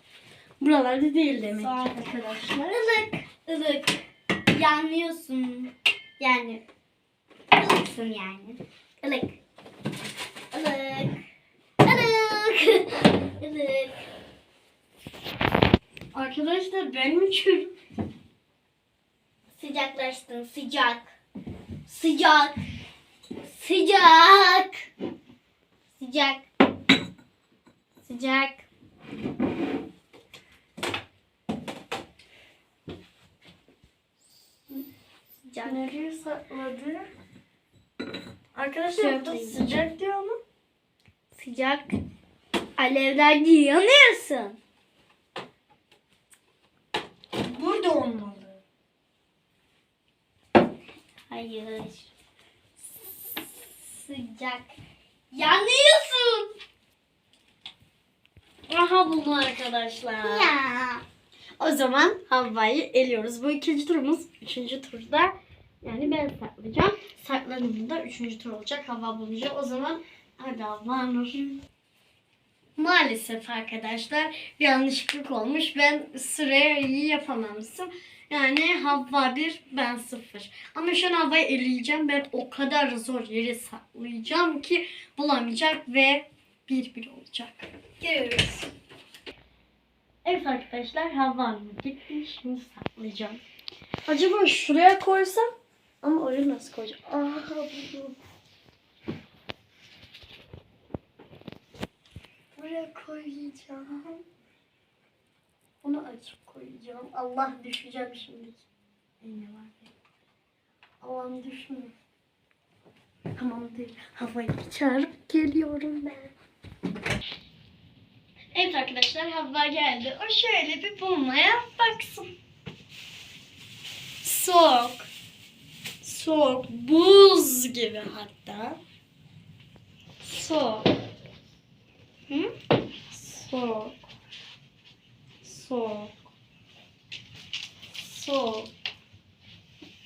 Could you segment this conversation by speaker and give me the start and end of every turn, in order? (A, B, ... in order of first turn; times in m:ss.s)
0:00.6-0:02.4 A
0:01.5-0:06.6 B
0:07.5-0:09.4 B
0:10.5-0:11.2 B
0:11.8-0:14.0 B
0:16.1-0:17.7 A
0:19.6-0:21.1 B
0:21.9-0:22.6 B
0:23.4-0:24.8 B
0:26.0-0:26.5 B
0:28.0-0:28.6 B
0:35.4-0:35.9 B
0:35.6-0:37.1 A
0:38.6-0:40.4 A
0:38.9-0:39.8 B
0:41.3-0:42.0 B
0:42.8-0:44.6 B
0:47.4-0:48.6 A
0:51.3-0:52.1 B
0:53.8-0:54.8 B
0:55.3-0:56.5 B
0:58.7-1:00.5 A
1:00.2-1:01.0 B
1:01.6-1:11.4 A
1:11.4-1:11.6 B
1:12.8-1:27.7 A
1:28.0-1:28.7 B
1:30.2-1:33.4 A
1:34.1-1:35.5 A
1:36.0-1:38.2 A
1:42.6-1:44.2 A
1:45.8-1:48.7 A
1:49.2-1:49.9 A
1:51.0-1:51.9 A
1:53.3-1:56.3 A
1:58.5-2:02.3 A
2:04.2-2:05.1 A
2:06.0-2:08.8 A
2:10.2-2:10.9 A
2:13.1-2:14.0 A
2:15.4-2:16.3 A
2:18.0-2:18.7 A